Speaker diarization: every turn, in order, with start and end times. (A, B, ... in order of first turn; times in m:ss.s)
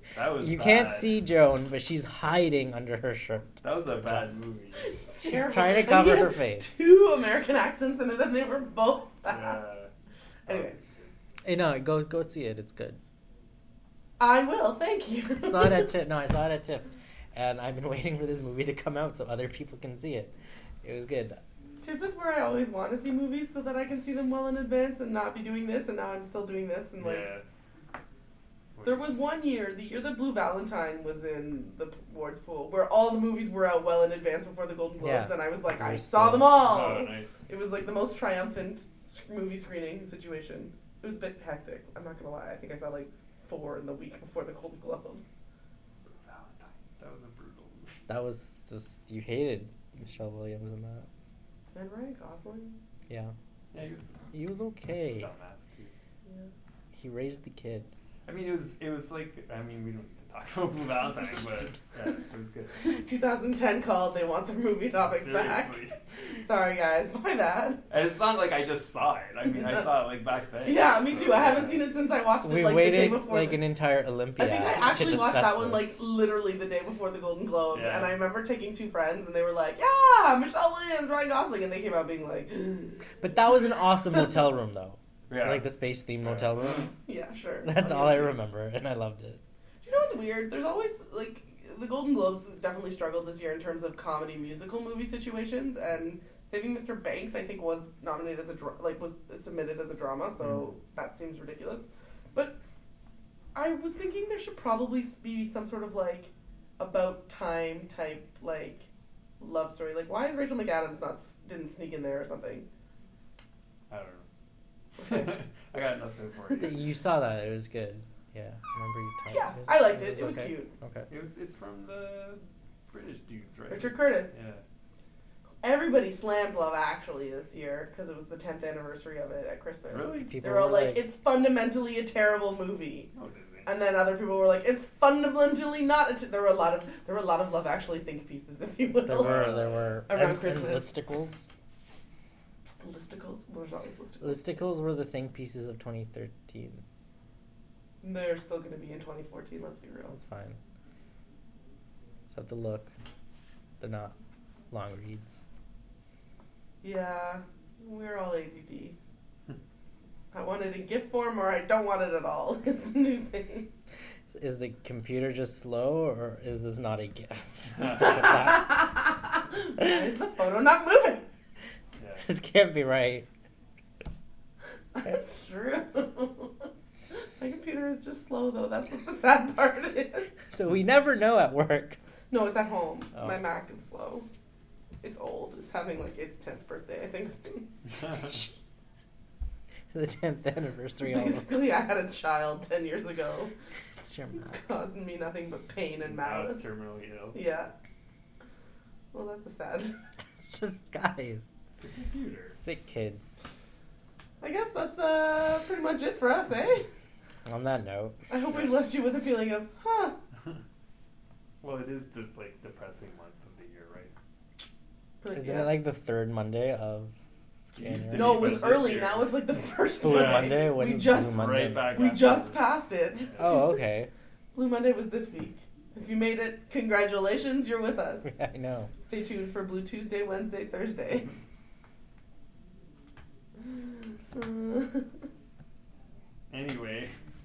0:00.1-0:01.2 A
0:00.2-0:04.3 B
0:03.6-0:04.9 A
0:04.8-0:09.6 C
0:05.2-0:06.8 B
0:09.3-0:09.9 A
0:10.5-0:10.7 C
0:10.5-0:11.1 A
0:11.4-0:13.0 B
0:14.2-0:15.9 C
0:15.4-0:21.4 B
0:21.8-0:27.3 C
0:27.0-0:27.4 A
0:28.8-0:29.2 A
0:28.8-0:45.3 C
0:35.0-0:36.7 B
0:36.6-0:37.4 A
0:46.0-0:48.0 A
0:48.1-0:51.1 B
0:51.7-0:52.8 C
0:53.1-0:53.3 B
0:53.7-0:54.3 A
0:54.3-0:55.3 B
0:55.1-0:55.9 A
0:56.9-0:57.9 B
0:58.2-1:02.9 A
1:02.8-1:07.8 C
1:05.0-1:06.0 A
1:07.9-1:11.8 A
1:10.6-1:13.6 C
1:12.4-1:16.0 B
1:14.4-1:23.1 C
1:17.7-1:18.2 A
1:23.2-1:26.9 B
1:25.3-1:26.9 A
1:27.0-1:28.4 C
1:27.6-1:29.4 B
1:29.8-1:42.6 C
1:43.5-1:48.9 C
1:49.4-1:52.7 C
1:53.9-1:54.3 A
1:55.0-1:56.8 A
1:55.0-1:55.3 C
1:56.5-2:01.1 B
1:59.3-2:00.7 C
2:01.1-2:04.6 A
2:03.7-2:04.3 C
2:05.6-2:13.1 C
2:09.9-2:10.3 A
2:10.3-2:11.0 B
2:13.1-2:13.9 A
2:13.6-2:19.4 C
2:19.0-2:21.5 B
2:19.1-2:20.0 A
2:20.1-2:20.9 C
2:22.8-2:24.4 C
2:24.2-2:26.8 B
2:28.0-2:30.1 C
2:30.1-2:30.6 B
2:32.3-2:32.9 B
2:33.8-2:34.1 B
2:34.7-2:35.4 B
2:36.8-2:39.0 C
2:40.3-2:43.7 C
2:44.3-2:48.8 B
2:47.7-2:48.3 A
2:47.9-2:51.2 C
2:52.0-2:52.3 A
2:52.2-2:53.3 B
2:54.9-3:00.3 C
3:00.5-3:02.0 B
3:02.3-3:04.3 C
3:05.0-3:08.4 C
3:08.0-3:08.3 A
3:09.9-3:11.4 B
3:11.0-3:13.5 C
3:14.0-3:14.7 B
3:14.3-3:16.7 C
3:16.0-3:17.4 A
3:17.3-3:17.7 C
3:19.1-3:19.9 C
3:20.4-3:21.5 B
3:21.8-3:22.6 A
3:22.6-3:23.3 B
3:24.4-3:26.8 C
3:27.4-3:28.2 B
3:28.3-3:30.2 C
3:31.6-3:34.1 A
3:35.2-3:35.8 C
3:35.3-3:37.1 B
3:37.7-3:38.7 B
3:37.7-3:42.6 A
3:38.1-3:43.8 C
3:40.0-3:42.0 B
3:43.3-3:43.6 A
3:43.4-3:44.1 B
3:44.5-3:48.4 C
3:48.3-3:48.9 B
3:49.0-3:51.3 C
3:54.3-3:55.1 C
3:56.5-3:57.1 A